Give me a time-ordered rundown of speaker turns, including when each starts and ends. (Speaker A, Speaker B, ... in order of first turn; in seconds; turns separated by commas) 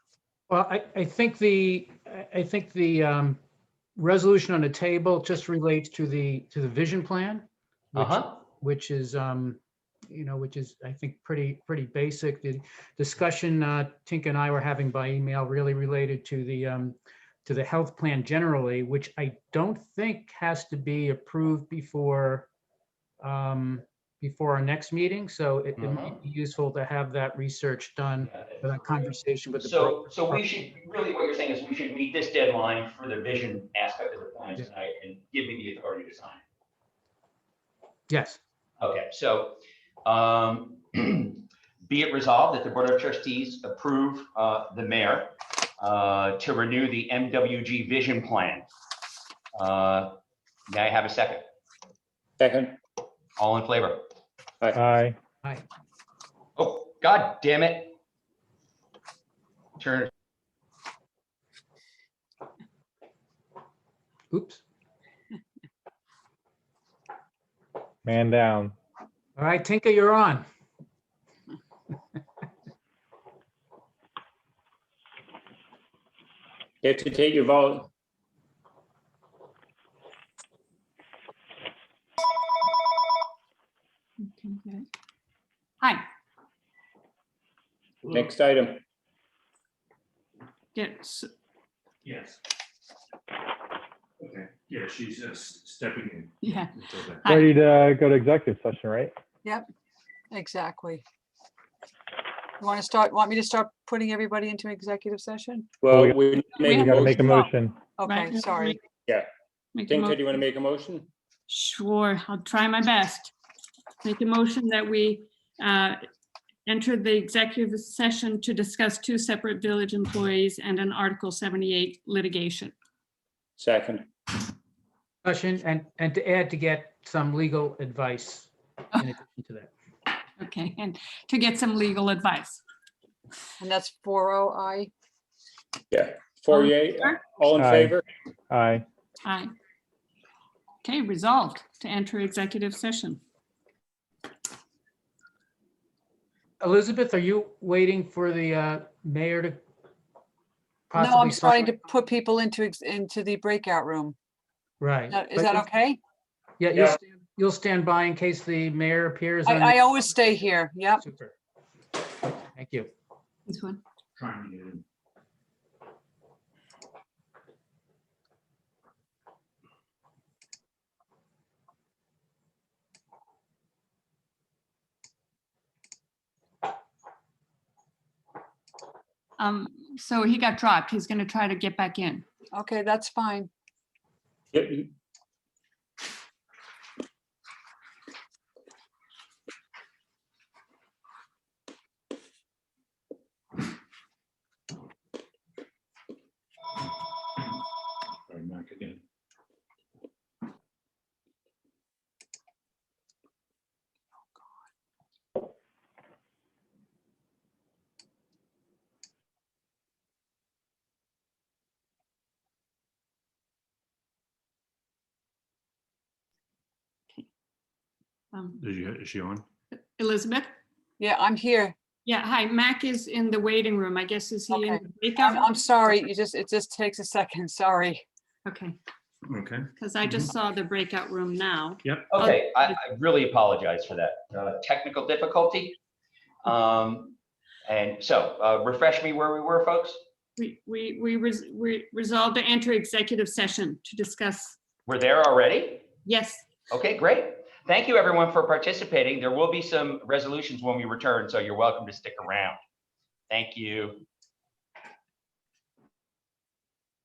Speaker A: 0.5-3.4, Speaker A: 4.0-22.5, Speaker B: 8.0-8.3, Speaker A: 23.2-30.4, Speaker B: 25.8-26.2, Speaker B: 28.3-36.4, Speaker A: 38.1-38.4, Speaker B: 38.8-48.7, Speaker B: 49.5-50.2, Speaker B: 50.7-51.4, Speaker C: 52.4-52.8, Speaker B: 53.4-54.0, Speaker D: 54.7-55.2, Speaker B: 56.6-57.9, Speaker B: 59.8-60.1, Speaker A: 64.3-64.6, Speaker D: 68.0-68.7, Speaker A: 69.4-70.5, Speaker C: 76.8-77.9, Speaker E: 84.4-84.8, Speaker F: 88.0-88.3, Speaker C: 88.1-88.8, Speaker E: 90.7-91.3, Speaker F: 92.0-92.4, Speaker F: 94.2-97.2, Speaker E: 96.4-97.5, Speaker D: 97.3-99.1, Speaker G: 100.3-101.0, Speaker G: 102.6-105.7, Speaker C: 105.8-107.4, Speaker D: 105.9-107.8, Speaker E: 106.6-107.5, Speaker G: 108.0-108.8, Speaker E: 108.0-108.8, Speaker E: 109.8-110.4, Speaker C: 109.9-111.1, Speaker E: 111.5-113.3, Speaker E: 114.0-116.0, Speaker E: 116.7-122.7, Speaker C: 123.6-124.1, Speaker A: 125.2-129.7, Speaker E: 130.4-132.6, Speaker G: 133.6-134.9, Speaker C: 135.9-138.0, Speaker E: 136.5-137.2, Speaker D: 137.5-138.8, Speaker E: 139.2-139.5, Speaker E: 140.8-143.2, Speaker A: 146.6-149.6, Speaker A: 150.9-151.7, Speaker G: 150.9-154.2, Speaker A: 154.8-155.7, Speaker G: 155.1-156.0, Speaker A: 156.6-159.8, Speaker G: 159.4-161.1, Speaker A: 161.0-161.3, Speaker A: 162.6-162.9, Speaker E: 163.5-163.8, Speaker F: 164.2-164.8, Speaker E: 179.4-182.2, Speaker G: 182.5-183.5, Speaker C: 184.5-184.9, Speaker F: 198.3-199.0, Speaker E: 218.3-218.6, Speaker F: 218.6-219.5, Speaker E: 219.7-220.6, Speaker G: 221.0-221.8, Speaker E: 222.1-225.6, Speaker G: 224.5-228.0, Speaker E: 228.5-228.8, Speaker F: 229.3-230.3, Speaker E: 229.8-232.5, Speaker B: 232.1-235.8, Speaker B: 236.4-240.0, Speaker E: 240.4-244.6, Speaker B: 244.9-245.9, Speaker E: 246.1-246.4, Speaker B: 246.7-252.6, Speaker B: 253.3-254.0